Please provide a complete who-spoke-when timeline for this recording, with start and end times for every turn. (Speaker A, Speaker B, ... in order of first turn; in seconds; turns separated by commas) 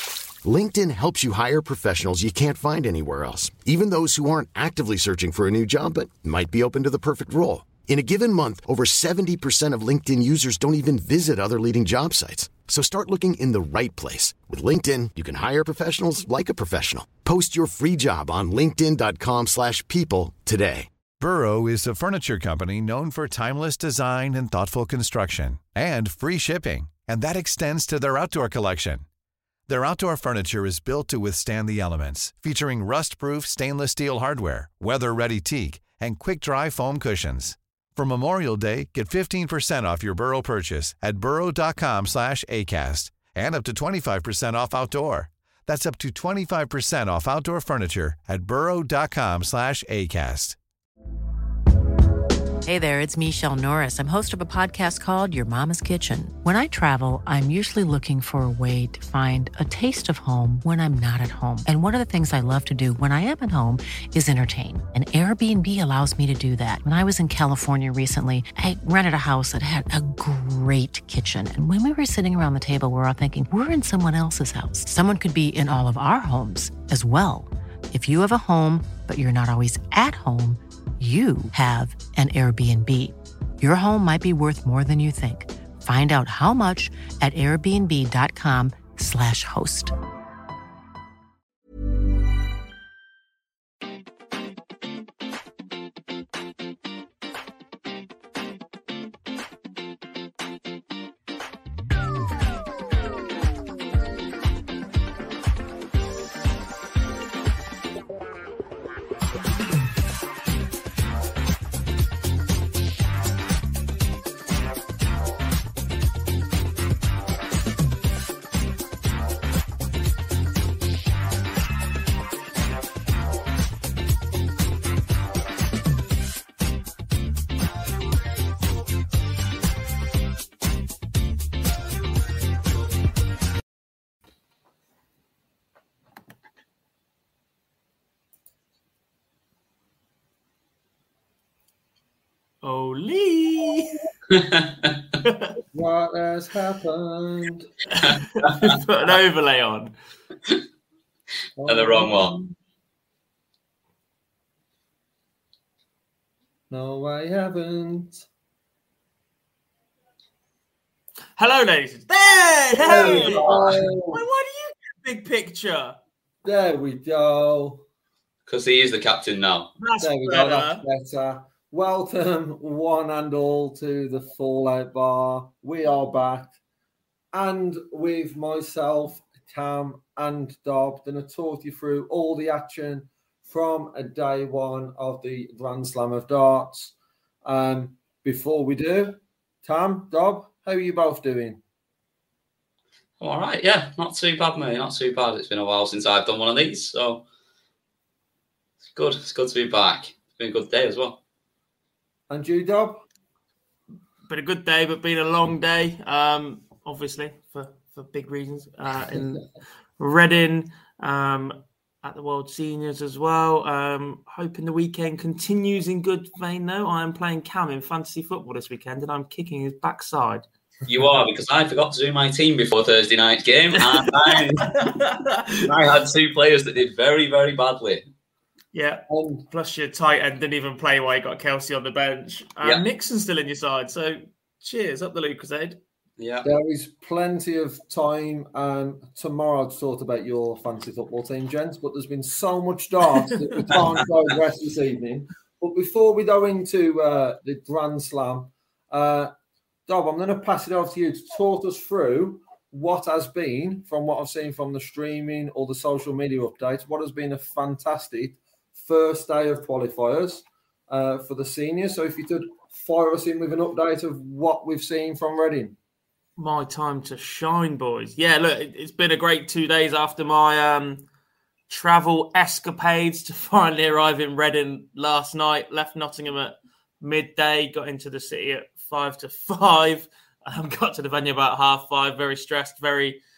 Speaker A: 0.4-20.9, Speaker B: 21.2-29.0, Speaker B: 29.7-50.6, Speaker C: 52.6-89.9, Speaker D: 142.6-144.0, Speaker E: 144.3-144.9, Speaker D: 145.2-145.5, Speaker F: 145.7-147.7, Speaker D: 147.9-149.9, Speaker F: 151.6-152.5, Speaker E: 151.6-152.3, Speaker F: 156.7-158.2, Speaker D: 161.4-163.6, Speaker F: 162.8-164.2, Speaker E: 162.9-163.7, Speaker D: 164.1-166.0, Speaker F: 166.4-167.8, Speaker E: 168.5-169.7, Speaker D: 169.8-170.8, Speaker F: 170.0-176.6, Speaker F: 177.3-186.9, Speaker F: 187.4-191.6, Speaker E: 193.2-197.2, Speaker E: 198.9-201.2, Speaker F: 202.3-203.0, Speaker D: 204.3-209.4, Speaker D: 210.0-220.4, Speaker E: 220.9-224.9, Speaker D: 224.0-225.7, Speaker E: 225.6-228.0, Speaker D: 228.7-235.8, Speaker F: 229.1-229.4, Speaker E: 236.2-236.4, Speaker F: 236.4-249.3, Speaker F: 249.9-265.8, Speaker D: 266.4-271.0, Speaker D: 271.7-283.2